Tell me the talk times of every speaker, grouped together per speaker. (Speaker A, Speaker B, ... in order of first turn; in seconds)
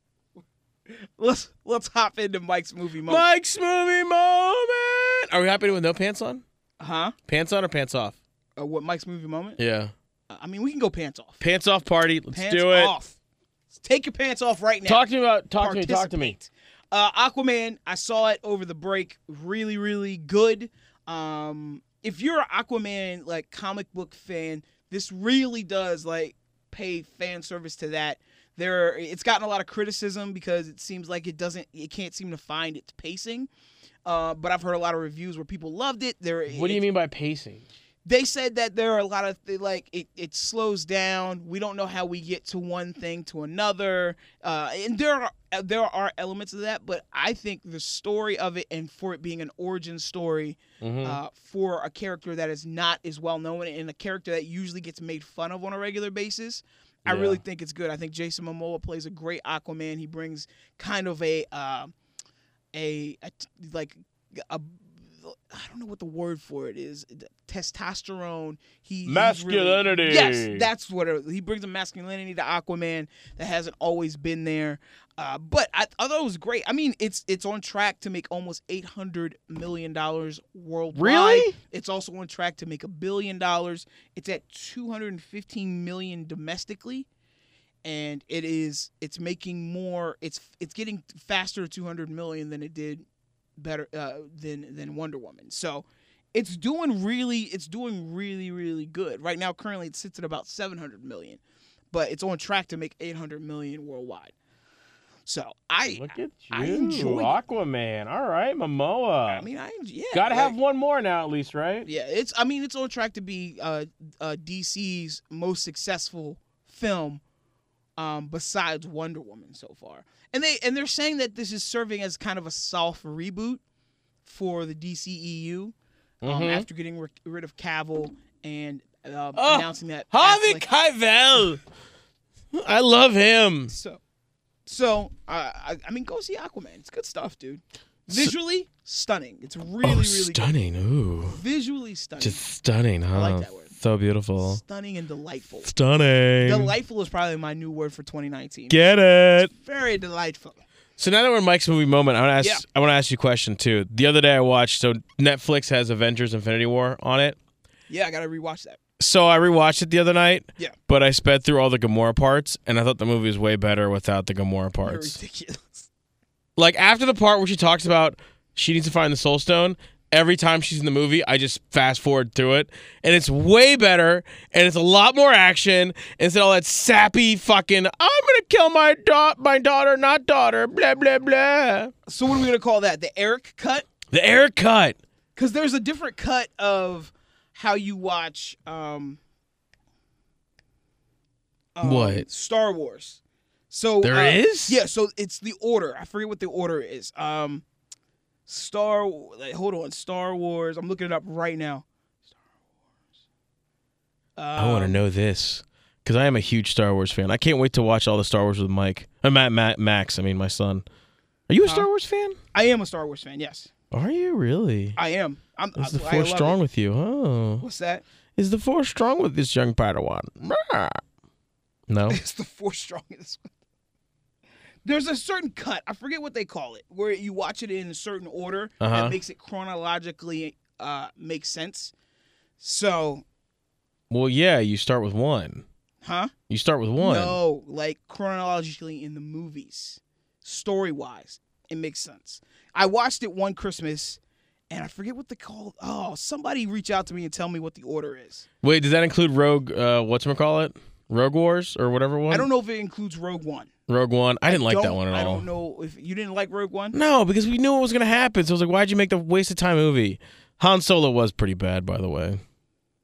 Speaker A: 0.9-3.3, 6.8-7.2, 8.6-9.6, 10.3-11.4, 12.3-13.2, 13.7-33.5, 34.1-36.8, 38.0-61.9, 62.7-87.1, 87.8-93.0, 93.6-101.4, 101.9-104.3, 105.3-107.4, 109.3-110.5, 111.8-117.2, 118.0-123.6, 124.2-130.7, 133.7-134.0, 134.7-140.5, 141.2-142.4, 143.1-143.7, 144.4-145.7, 146.4-148.8, 149.4-150.6, 157.9-158.8, 164.8-165.9, 182.1-183.9, 185.4-189.2, 191.8-197.6, 198.5-201.8, 204.4-205.0, 212.5-213.7, 215.0-216.6, 217.6-218.0, 222.1-223.5, 224.8-231.9, 232.6-233.2, 236.0-236.3, 237.0-244.2, 244.7-248.4, 252.3-253.7, 254.5-257.0
Speaker B: 3.1-6.4, 7.3-8.2, 9.6-9.9, 11.4-12.9, 14.8-16.4, 36.5-37.7, 50.8-51.2, 57.1-57.4, 69.1-70.7, 80.9-81.6, 105.9-109.5, 110.1-111.9, 126.2-126.7, 129.3-131.6, 132.5-133.7, 139.8-141.4, 142.2-144.6, 145.6-146.8, 148.7-149.5, 151.0-157.4, 159.0-165.2, 166.6-181.9, 184.1-185.0, 191.8-192.3, 194.0-194.8, 204.6-210.8, 211.5-212.4, 213.9-215.0, 215.8-217.7, 218.4-221.0, 221.9-222.2, 228.8-229.2, 234.1-235.7, 236.5-237.4, 248.6-252.5, 253.9-255.4, 256.9-262.4